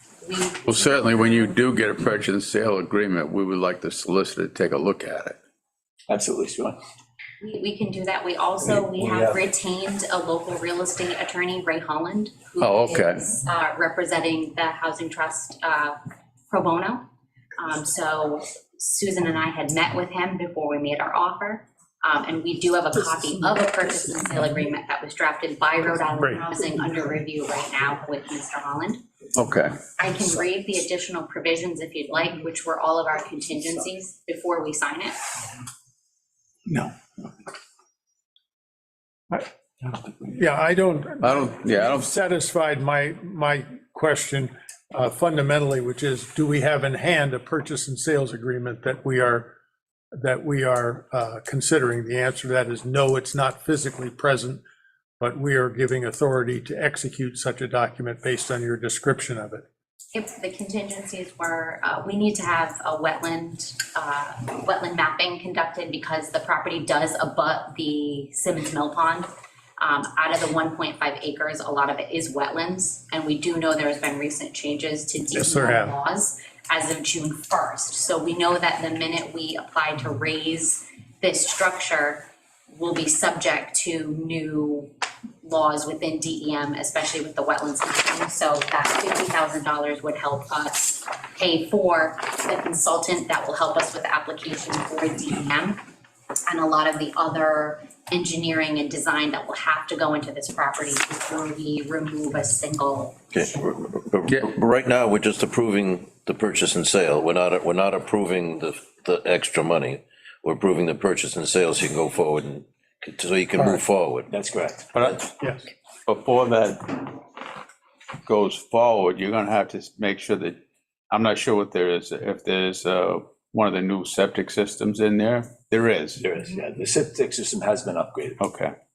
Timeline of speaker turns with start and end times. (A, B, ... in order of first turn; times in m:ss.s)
0:00.2-0:01.6 A
0:00.7-0:05.4 B
0:06.1-0:06.8 C
0:07.4-0:16.0 A
0:08.8-0:09.4 C
0:12.6-0:13.2 B
0:16.5-0:17.0 A
0:17.6-0:29.0 A
0:29.4-0:29.8 B
0:30.0-0:35.2 A
0:36.7-0:36.9 B
0:40.3-0:49.5 D
0:41.2-0:42.1 B
0:50.1-0:54.6 D
0:55.2-0:59.6 D
1:00.1-1:35.8 A
1:15.3-1:16.0 D
1:36.5-1:43.2 A
1:43.3-1:54.3 E
1:54.3-1:54.9 C
1:54.9-1:55.2 B
1:56.1-1:57.2 B
1:58.2-2:00.6 B
2:01.1-2:06.2 B
2:06.2-2:08.4 C
2:08.4-2:08.7 B